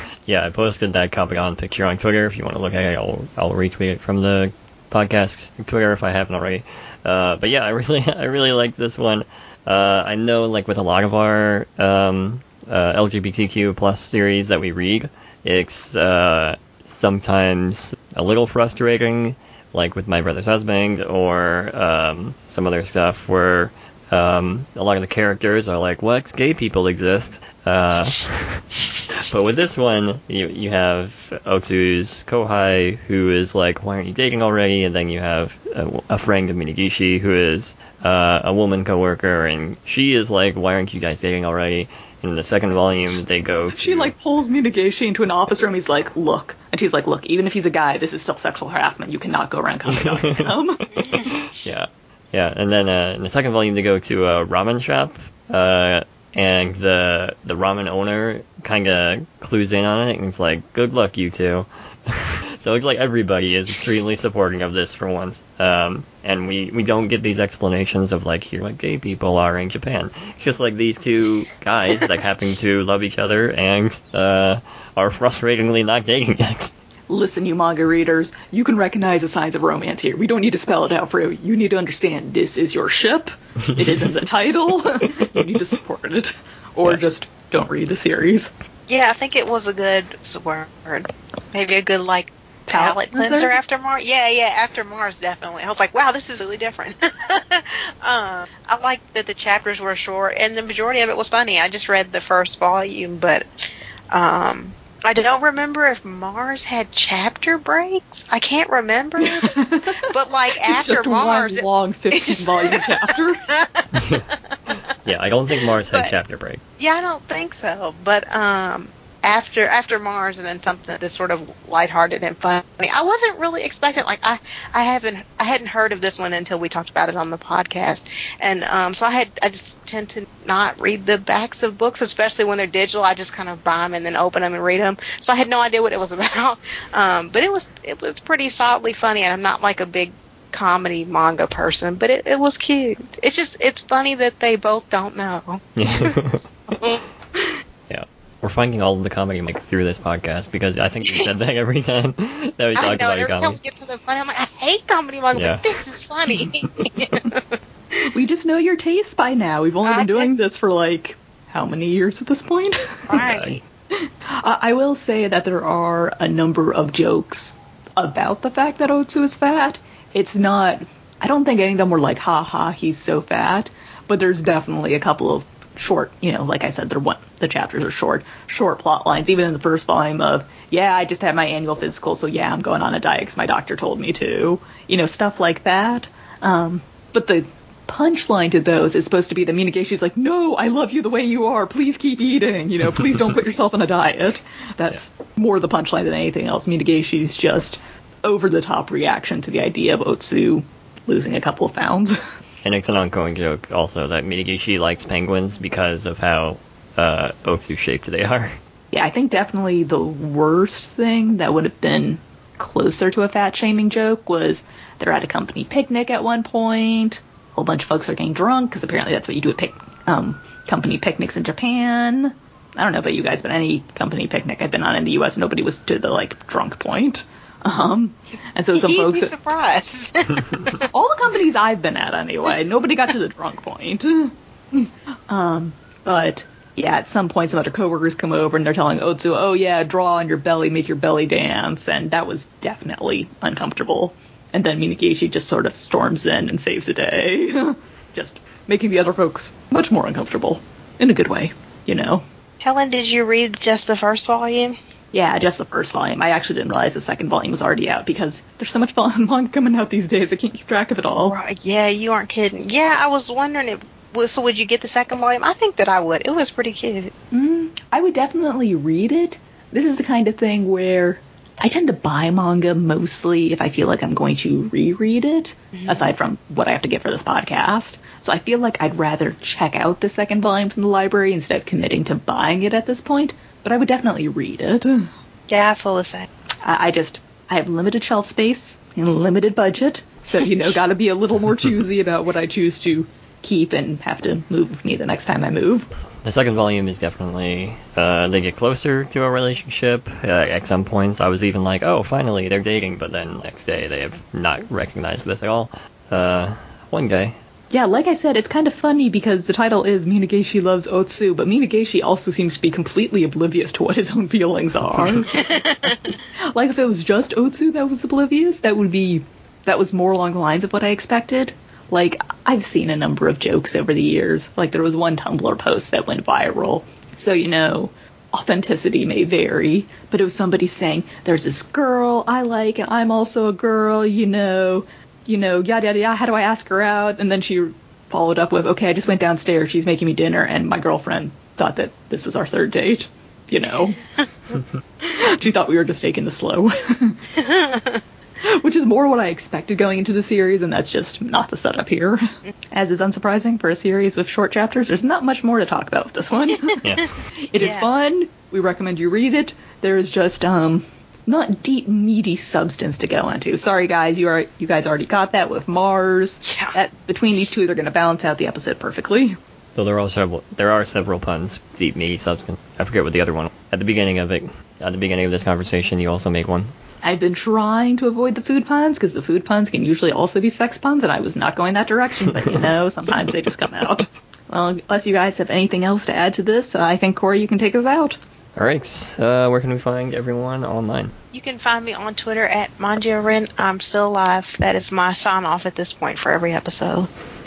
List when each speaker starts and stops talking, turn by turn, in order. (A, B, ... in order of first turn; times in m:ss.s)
0:00.3-0:44.1 A
0:43.7-0:50.8 B
0:49.9-1:16.7 A
1:17.1-1:28.5 B
1:28.9-1:43.4 C
1:32.7-1:33.6 B
1:44.1-1:54.5 C
1:49.2-1:50.1 B
1:50.6-1:53.4 B
1:53.9-1:56.6 A
1:56.8-2:27.6 C
2:25.8-2:26.5 A
2:27.9-2:33.6 A
2:32.8-2:37.4 C
2:35.3-2:35.6 A
2:38.1-2:43.2 B
2:39.8-2:40.3 C
2:43.1-2:43.6 C
2:43.2-2:43.6 A
2:43.9-3:22.2 B
3:22.6-3:28.6 A
3:28.9-3:49.3 B
3:48.7-3:50.8 C
3:50.9-4:12.2 B
4:12.6-4:14.8 C
4:15.1-4:21.4 B
4:21.2-4:27.1 C
4:27.3-4:45.1 B
4:35.8-4:36.0 C
4:45.5-4:46.3 C
4:46.6-4:55.9 B
4:56.2-5:07.4 A
5:07.7-5:44.0 B
5:15.3-5:16.0 C
5:45.0-5:47.4 B
5:47.4-5:47.9 C
5:48.4-5:56.8 B
5:57.5-6:09.4 B
5:57.6-5:57.9 C
6:06.4-6:06.8 C
6:09.7-6:16.7 A
6:17.0-6:28.2 B
6:28.6-6:31.1 A
6:31.3-6:37.1 C